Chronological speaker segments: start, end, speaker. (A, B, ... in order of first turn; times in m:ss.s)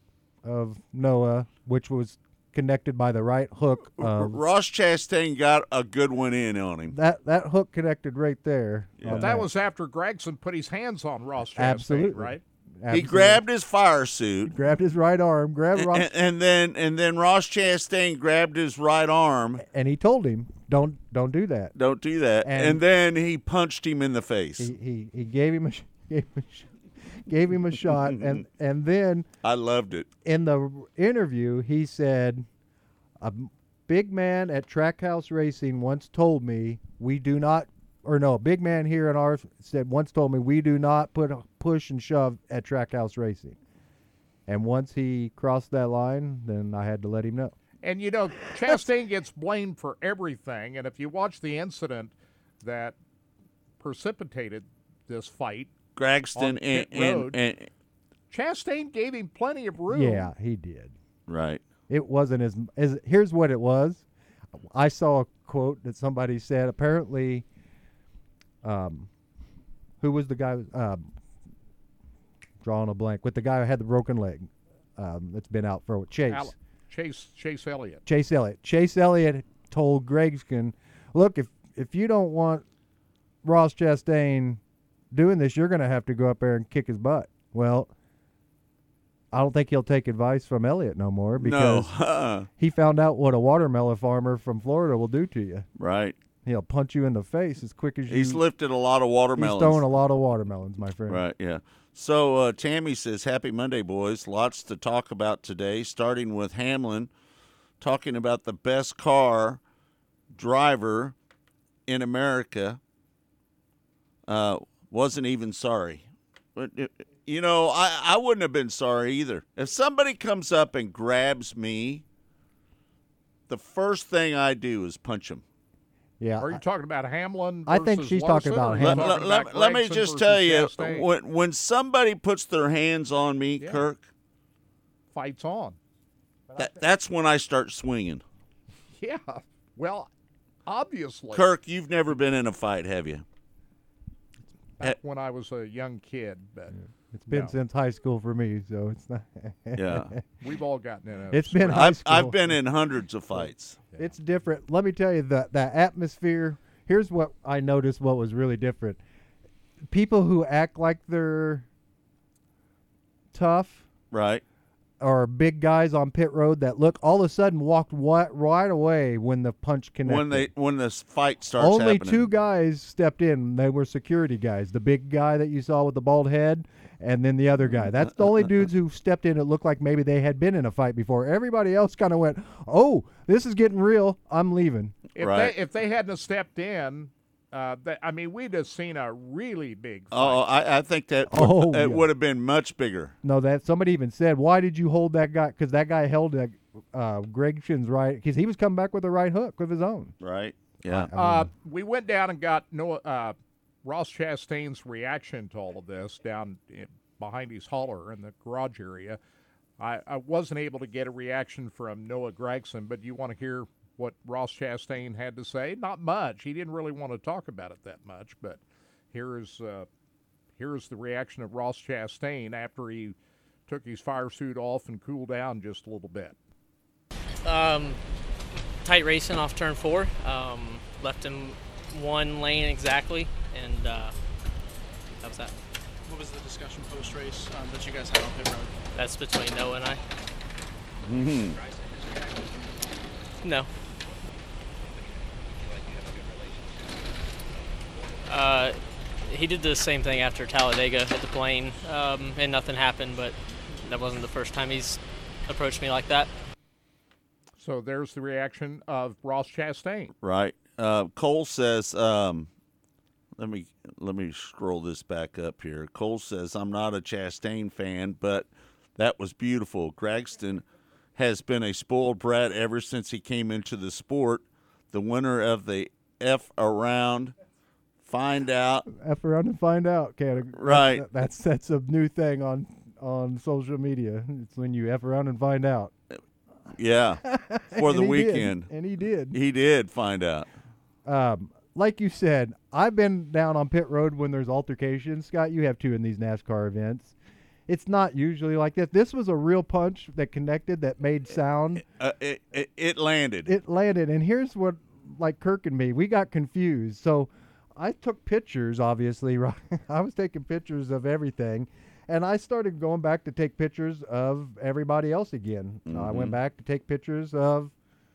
0:00.4-0:04.4 A
0:04.0-0:06.9 B
0:06.9-0:09.5 A
0:09.0-0:09.4 B
0:09.1-0:12.4 C
0:11.6-0:13.4 A
0:12.9-0:14.5 B
0:14.5-0:16.1 A
0:15.8-0:19.6 B
0:19.6-0:21.7 A
0:21.8-0:24.7 B
0:22.4-0:22.8 A
0:24.6-0:29.3 A
0:28.0-0:28.4 B
0:29.4-0:30.1 B
0:30.2-0:32.5 A
0:33.2-0:43.6 A
0:44.5-0:47.6 A
0:47.8-0:53.0 C
0:53.8-0:55.7 C
0:56.0-0:57.7 B
0:56.4-0:57.4 C
0:58.3-1:00.3 C
0:59.9-1:01.0 A
1:01.3-1:01.6 B
1:01.9-1:04.0 A
1:04.7-1:07.5 A
1:08.6-1:09.1 A
1:10.0-1:11.1 A
1:12.6-1:16.5 A
1:16.3-1:18.0 C
1:18.1-1:22.6 A
1:23.4-1:24.6 A
1:25.1-1:27.9 A
1:29.3-1:31.9 A
1:31.4-1:32.5 B
1:32.6-1:35.7 A
1:35.8-1:36.2 B
1:36.4-1:38.4 A
1:38.1-1:39.8 B
1:39.4-1:41.2 A
1:41.1-1:47.1 B
1:47.8-1:49.6 B
1:50.3-1:51.2 B
1:51.9-1:52.8 B
1:54.3-2:02.0 B
2:03.5-2:05.4 B
2:06.2-2:06.6 A
2:06.4-2:11.1 C
2:07.7-2:09.2 A
2:08.8-2:14.1 B
2:13.6-2:13.8 C
2:15.1-2:15.8 C
2:16.6-2:18.2 B
2:19.0-2:20.1 C
2:20.7-2:21.5 C
2:21.3-2:23.2 B
2:24.8-2:27.6 C
2:27.1-2:30.2 A
2:29.8-2:30.1 B
2:30.4-2:31.8 C
2:31.3-2:32.5 A
2:31.7-2:33.8 B
2:33.4-2:39.0 A
2:39.9-2:41.7 A
2:43.3-2:43.9 A
2:44.1-2:44.4 B
2:45.0-2:50.5 A
2:50.1-2:52.2 B
2:51.6-3:05.0 A
3:05.2-3:10.4 C
3:05.2-3:05.5 B
3:10.1-3:13.2 B
3:11.3-3:12.1 A
3:13.2-3:20.1 A
3:20.2-3:21.1 B
3:20.9-3:21.5 A
3:21.1-3:29.2 C
3:29.8-3:38.6 C
3:39.1-3:39.9 C
3:40.6-3:43.2 C
3:43.7-3:46.4 C
3:47.4-3:48.0 D
3:48.8-3:54.2 D
3:55.2-3:55.5 D
3:56.1-3:58.8 E
3:58.9-4:00.0 D
4:01.0-4:01.6 B
4:03.4-4:03.7 D
4:08.3-4:16.3 D
4:17.6-4:20.1 C
4:20.2-4:22.5 B
4:23.4-4:30.6 B
4:31.2-4:37.4 B
4:38.0-4:38.9 B
4:38.9-4:45.9 A
4:40.6-4:41.0 B
4:46.8-4:47.2 B
4:47.2-4:49.4 A
4:47.8-4:48.7 B
4:49.3-4:50.5 B
4:51.0-4:57.2 A
4:57.7-5:01.8 A
5:01.8-5:03.6 B
5:03.5-5:17.7 A
5:15.9-5:16.4 B